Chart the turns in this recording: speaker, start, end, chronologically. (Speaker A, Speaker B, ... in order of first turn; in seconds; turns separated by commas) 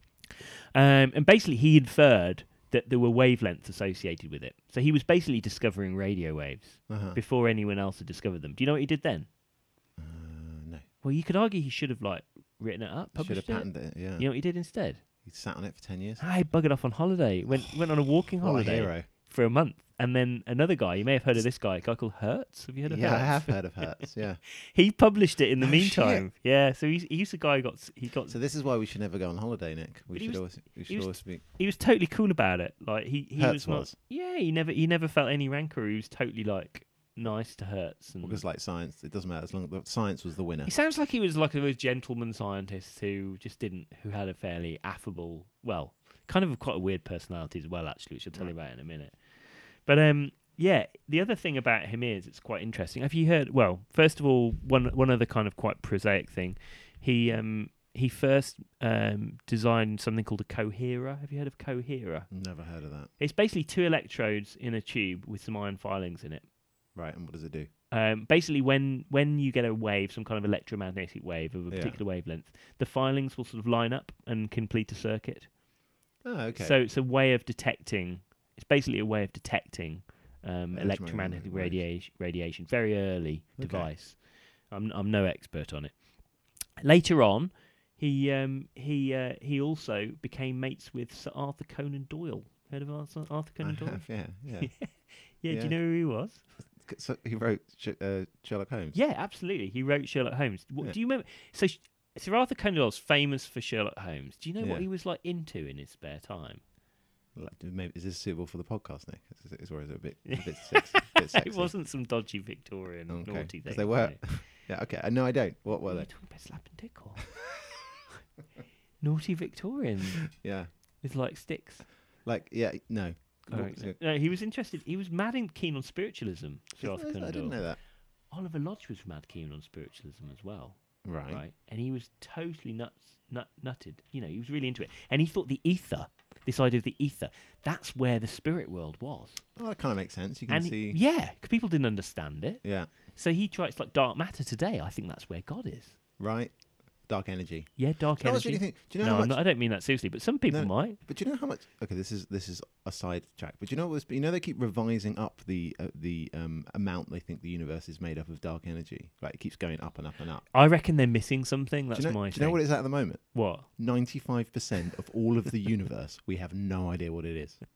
Speaker A: 0.3-9.3, Speaker B: 6.9-7.2, Speaker B: 10.0-10.8, Speaker A: 11.0-15.0, Speaker B: 13.1-14.3, Speaker B: 15.2-16.2, Speaker A: 16.2-23.9, Speaker B: 18.1-19.1, Speaker B: 22.8-24.4, Speaker A: 24.5-28.4, Speaker B: 25.6-26.3, Speaker B: 28.3-31.4, Speaker A: 30.1-38.4, Speaker B: 33.4-33.9, Speaker B: 38.2-40.7, Speaker A: 40.6-62.3, Speaker B: 62.3-63.1, Speaker A: 63.2-66.4, Speaker B: 66.9-67.7, Speaker A: 67.9-75.5, Speaker B: 71.7-72.0, Speaker B: 76.2-76.8, Speaker A: 76.5-86.0, Speaker B: 80.7-81.8, Speaker B: 83.6-83.9, Speaker A: 86.8-94.1, Speaker B: 93.6-94.8, Speaker A: 94.6-96.4, Speaker B: 95.5-95.7, Speaker B: 96.8-99.0, Speaker A: 98.9-106.6, Speaker B: 104.6-104.8, Speaker B: 107.3-111.7, Speaker A: 110.2-114.3, Speaker B: 113.1-116.1, Speaker A: 115.8-117.3, Speaker A: 119.0-120.3, Speaker B: 120.3-120.7, Speaker A: 121.0-121.9, Speaker B: 122.2-124.0, Speaker A: 123.5-127.6, Speaker B: 126.8-127.8, Speaker A: 128.3-139.4, Speaker B: 131.0-131.4, Speaker B: 139.6-141.0, Speaker A: 140.5-145.9, Speaker B: 142.6-142.9, Speaker B: 146.2-149.4, Speaker A: 147.8-151.0, Speaker B: 150.5-160.5, Speaker A: 160.5-162.6, Speaker B: 161.9-167.6, Speaker A: 163.2-163.7